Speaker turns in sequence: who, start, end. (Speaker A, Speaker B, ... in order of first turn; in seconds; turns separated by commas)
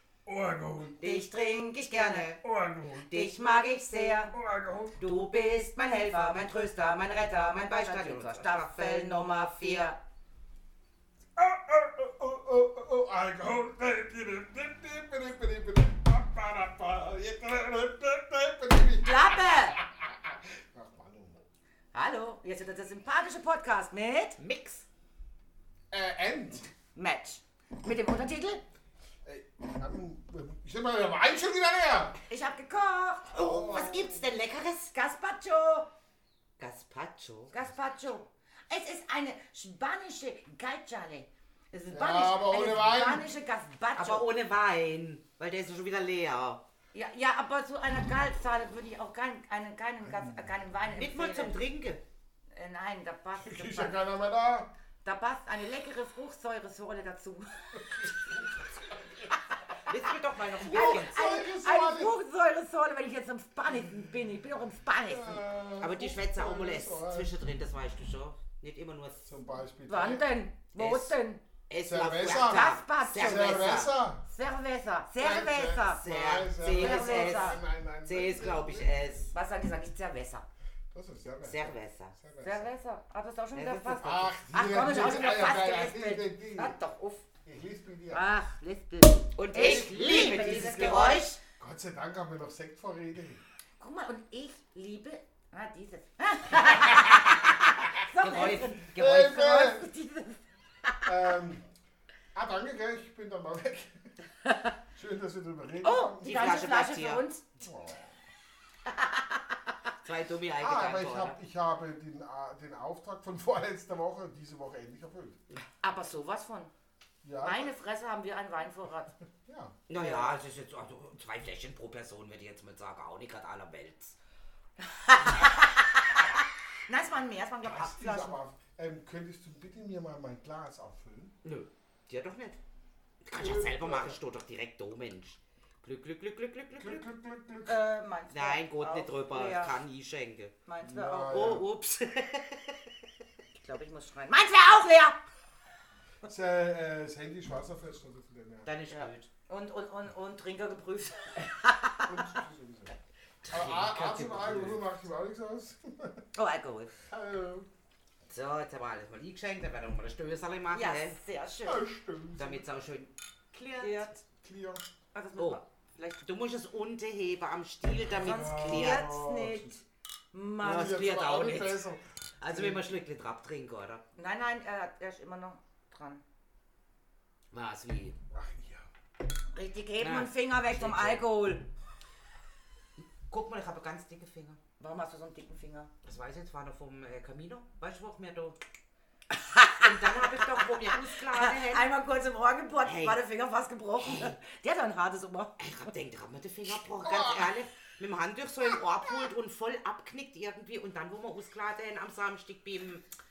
Speaker A: 0.2-1.0, Speaker B: 1.0-2.4, Speaker C: 1.0-2.4, Speaker A: 2.4-3.0, Speaker C: 3.0-4.3, Speaker B: 3.1-4.3, Speaker A: 4.3-5.0, Speaker C: 5.0-9.9, Speaker B: 5.1-10.0, Speaker A: 11.4-21.4, Speaker B: 19.0-19.8, Speaker B: 21.9-24.4, Speaker C: 24.4-24.9, Speaker A: 25.9-26.7, Speaker B: 26.9-28.6, Speaker A: 29.2-32.2, Speaker B: 32.3-33.4, Speaker C: 33.3-34.9, Speaker A: 33.4-34.2, Speaker B: 34.9-35.9, Speaker C: 36.6-37.5, Speaker B: 37.5-44.2, Speaker A: 41.9-43.3, Speaker C: 44.0-46.6, Speaker B: 46.9-51.6, Speaker A: 50.0-50.5, Speaker C: 50.9-52.0, Speaker B: 52.5-54.0, Speaker A: 53.4-54.7, Speaker B: 55.0-58.3, Speaker A: 57.7-59.3, Speaker C: 59.9-61.2, Speaker B: 60.6-65.4, Speaker A: 60.6-62.1, Speaker A: 63.7-64.1, Speaker A: 65.0-67.3, Speaker C: 65.8-69.3, Speaker A: 69.2-70.3, Speaker B: 69.9-71.4, Speaker C: 70.8-71.2, Speaker C: 71.7-74.0, Speaker A: 71.8-74.2, Speaker B: 72.4-76.1, Speaker A: 75.2-79.3, Speaker C: 76.0-79.3, Speaker B: 76.6-77.6, Speaker B: 79.3-80.5, Speaker A: 80.9-82.7, Speaker C: 81.5-82.1, Speaker B: 82.4-87.2, Speaker C: 83.5-84.2, Speaker A: 84.0-86.8, Speaker A: 87.4-88.2, Speaker B: 88.1-91.4, Speaker C: 89.4-91.4, Speaker A: 89.5-93.4, Speaker B: 93.8-101.1, Speaker C: 98.2-99.4, Speaker A: 98.9-99.9, Speaker A: 101.0-101.7, Speaker A: 102.3-104.1, Speaker B: 104.4-104.7, Speaker A: 104.9-106.6, Speaker B: 105.8-107.5, Speaker C: 106.2-107.2, Speaker A: 107.6-108.2, Speaker B: 108.9-109.4, Speaker C: 110.0-111.3, Speaker A: 110.6-115.4, Speaker B: 115.8-116.7, Speaker A: 117.2-117.7, Speaker B: 117.4-119.1, Speaker A: 119.4-119.8, Speaker C: 119.9-124.2, Speaker B: 119.9-120.3, Speaker B: 124.8-128.4, Speaker A: 127.6-131.3, Speaker C: 131.4-132.6, Speaker C: 133.2-137.0, Speaker A: 133.3-134.2, Speaker A: 136.7-137.8, Speaker B: 137.7-139.8, Speaker C: 138.3-140.5, Speaker B: 140.7-141.6, Speaker A: 140.8-141.6, Speaker C: 141.3-142.9, Speaker B: 143.5-145.2, Speaker A: 146.2-148.7, Speaker C: 148.7-149.3, Speaker B: 148.9-152.1, Speaker A: 152.0-152.9, Speaker C: 153.4-154.8, Speaker A: 153.5-156.2, Speaker B: 156.3-156.9, Speaker A: 157.1-157.7, Speaker C: 158.3-161.2, Speaker B: 160.7-161.8, Speaker A: 161.6-162.6, Speaker C: 162.4-164.1, Speaker B: 163.8-164.1, Speaker A: 164.2-164.8, Speaker B: 165.1-166.2, Speaker C: 166.2-169.1, Speaker A: 168.1-169.8, Speaker B: 168.2-171.0, Speaker C: 170.6-171.8, Speaker A: 170.6-172.9, Speaker C: 172.4-174.0, Speaker B: 174.2-176.2, Speaker C: 177.5-178.2, Speaker A: 178.3-178.9, Speaker B: 179.5-181.6, Speaker C: 180.0-181.2, Speaker C: 183.3-184.6, Speaker B: 184.8-185.9, Speaker C: 186.0-188.6, Speaker B: 189.3-195.9, Speaker C: 189.8-191.9, Speaker C: 192.8-193.2, Speaker C: 194.0-194.3, Speaker C: 195.6-203.0, Speaker A: 197.0-197.5